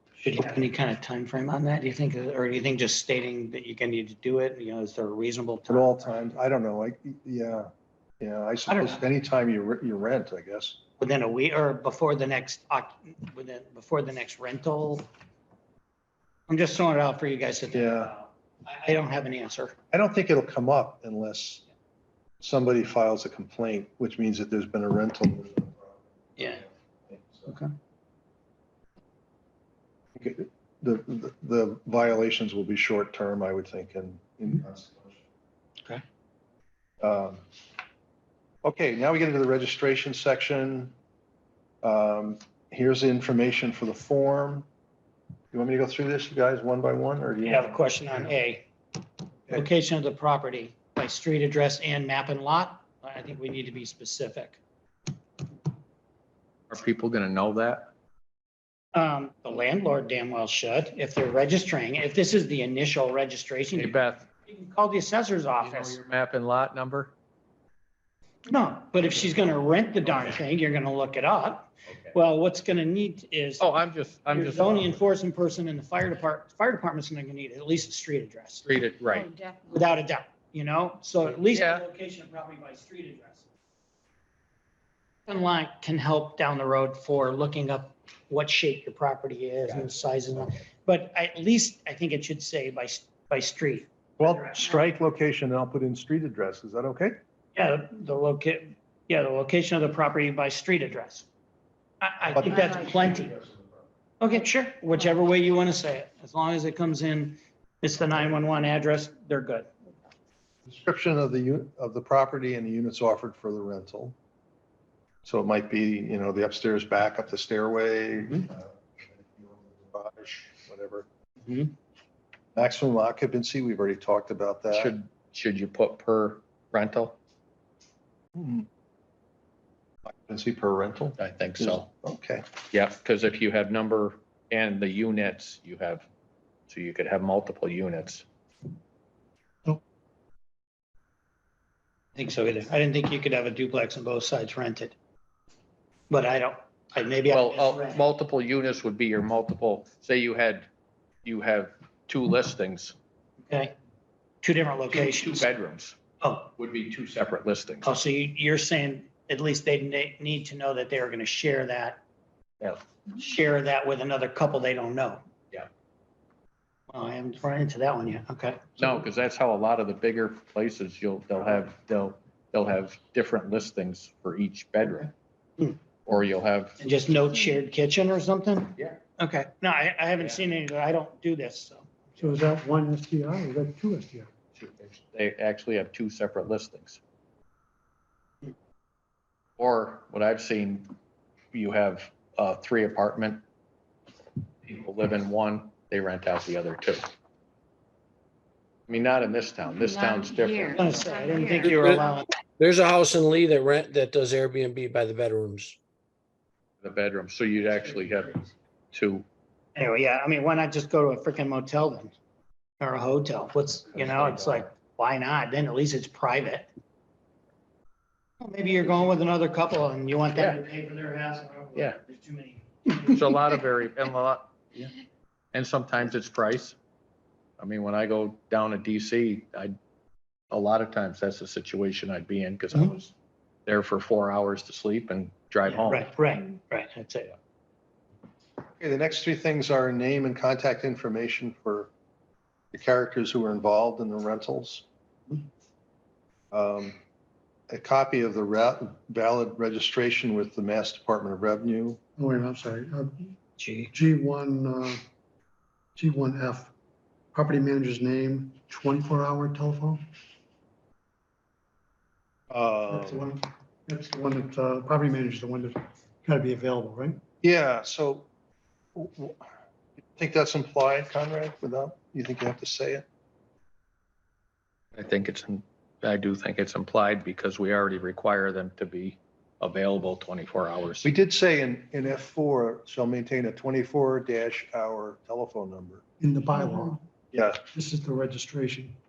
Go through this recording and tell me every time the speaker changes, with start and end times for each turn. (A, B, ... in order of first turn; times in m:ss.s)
0:00.2-0:06.1 A
0:05.7-0:10.8 B
0:08.7-0:09.0 A
0:11.0-0:15.1 A
0:16.5-0:19.8 A
0:17.7-0:18.1 B
0:19.9-0:21.7 B
0:22.4-0:27.5 B
0:30.2-0:35.2 B
0:37.0-0:37.4 B
0:38.6-0:40.9 B
0:41.8-0:44.7 B
0:45.5-0:47.7 B
0:47.4-0:48.7 A
0:49.5-0:54.6 A
0:56.7-0:57.9 C
0:58.9-1:06.0 A
1:03.7-1:04.3 C
1:05.6-1:07.1 C
1:08.5-1:13.7 A
1:10.0-1:10.4 C
1:11.9-1:12.2 C
1:13.6-1:15.0 C
1:14.3-1:18.7 A
1:18.6-1:19.3 C
1:19.1-1:20.0 D
1:19.7-1:23.5 A
1:21.5-1:21.8 C
1:25.3-1:34.3 A
1:34.2-1:37.2 B
1:37.6-1:41.3 A
1:42.0-1:43.3 A
1:42.3-1:43.4 B
1:42.8-1:43.3 D
1:44.2-1:49.7 A
1:50.7-1:54.2 B
1:55.2-2:01.1 B
2:02.6-2:05.0 B
2:04.7-2:07.2 C
2:08.4-2:08.7 B
2:10.1-2:12.5 B
2:11.2-2:11.9 C
2:12.7-2:16.1 C
2:16.7-2:18.2 C
2:22.2-2:25.0 A
2:26.1-2:28.0 A
2:27.3-2:30.7 C
2:31.2-2:33.0 C
2:34.4-2:35.5 A
2:34.9-2:36.0 C
2:36.2-2:36.5 A
2:36.6-2:37.9 C
2:37.8-2:42.0 A
2:43.1-2:45.2 A
2:46.9-2:48.8 A
2:48.8-2:55.1 C
2:56.0-2:56.8 C
2:56.8-3:02.4 A
3:02.2-3:04.3 E
3:04.6-3:07.0 C
3:09.6-3:10.9 C
3:11.5-3:13.4 C
3:14.6-3:17.1 C
3:18.9-3:21.7 C
3:19.8-3:22.2 D
3:20.8-3:22.3 A
3:21.8-3:22.1 F
3:22.6-3:25.8 F
3:26.8-3:28.4 C
3:28.9-3:29.3 C
3:29.8-3:32.1 A
3:32.8-3:36.7 A
3:33.9-3:34.7 C
3:38.4-3:43.4 A
3:40.4-3:40.6 C
3:43.1-3:44.9 C
3:45.5-3:46.8 C
3:47.6-3:49.7 C
3:50.5-3:53.1 C
3:53.7-3:56.1 C
3:55.7-3:57.4 A
3:58.8-4:01.9 B
4:02.7-4:04.9 B
4:06.5-4:07.0 B
4:07.7-4:12.0 B
4:12.2-4:13.4 E
4:13.6-4:13.9 A
4:13.9-4:15.0 E
4:16.0-4:16.7 E
4:17.3-4:20.0 E
4:22.5-4:23.3 B
4:22.9-4:27.2 E
4:27.4-4:28.3 B
4:29.0-4:29.4 B
4:30.1-4:33.0 B
4:35.0-4:41.1 C
4:41.0-4:46.0 B
4:46.2-4:47.0 E
4:47.3-4:47.6 B
4:47.7-4:49.0 E